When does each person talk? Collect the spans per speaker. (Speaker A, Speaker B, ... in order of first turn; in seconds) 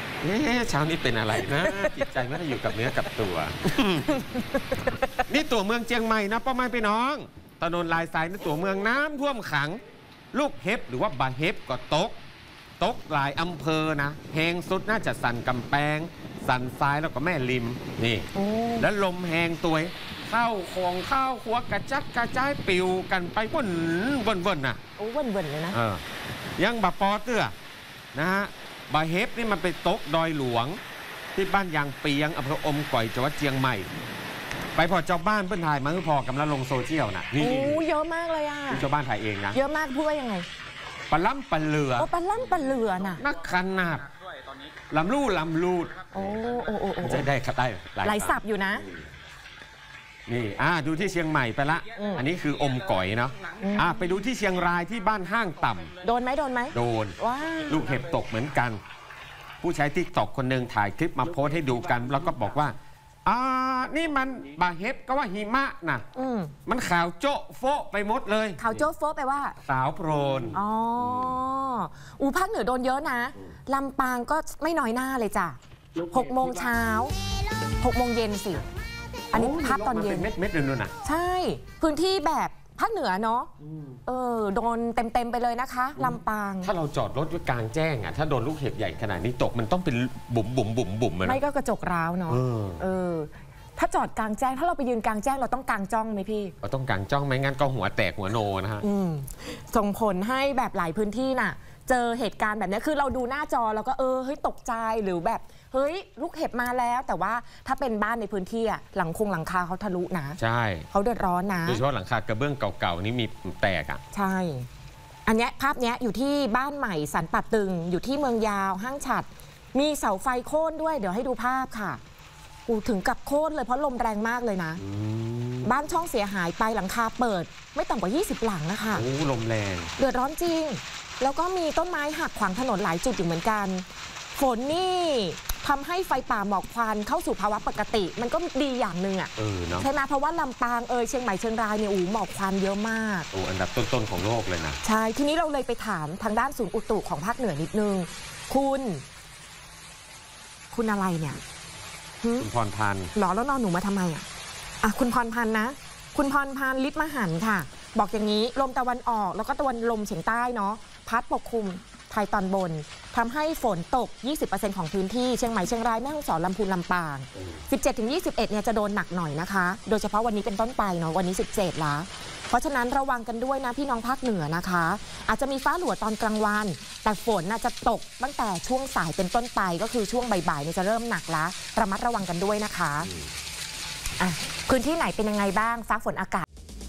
Speaker A: 0.2-4.2, 5.3-9.8, 10.3-12.2, 12.8-24.8, 25.7-26.0, 26.6-27.5, 28.1-30.8, 31.3-33.9, 34.8-37.8, 38.7-39.6, 41.1-42.1, 43.2-44.1, 44.9-46.1, 47.0-48.4, 50.3-55.9, 56.7-58.8, 59.6-66.0, 66.7-68.8, 69.6-71.4, 76.0-76.3, 79.3-80.9, 83.6-84.0, 86.0-91.4, 92.3-92.8, 96.6-98.8, 110.4-110.9, 111.7-114.0, 124.8-125.7, 128.9-129.9, 139.3-139.9, 143.3-144.8, 152.4-153.1
Speaker B: 1.6-1.9, 4.1-5.2, 18.3-18.9, 25.0-25.8, 37.4-38.9, 39.5-40.5, 42.0-43.2, 46.1-47.3, 48.0-48.8, 51.9-52.2, 53.6-54.1, 56.0-58.0, 66.1-66.5, 68.6-69.6, 70.5-75.6, 76.1-77.1, 77.8-78.6, 79.3-80.3, 81.0-83.5, 84.0-86.7, 91.2-96.5, 98.8-110.4, 110.9-111.8, 114.1-114.7, 115.2-122.0, 122.7-124.8, 125.6-129.1, 130.0-143.3, 144.8-149.0, 150.7-151.4, 152.2-152.5, 153.1-154.2, 154.8-183.1, 184.2-186.4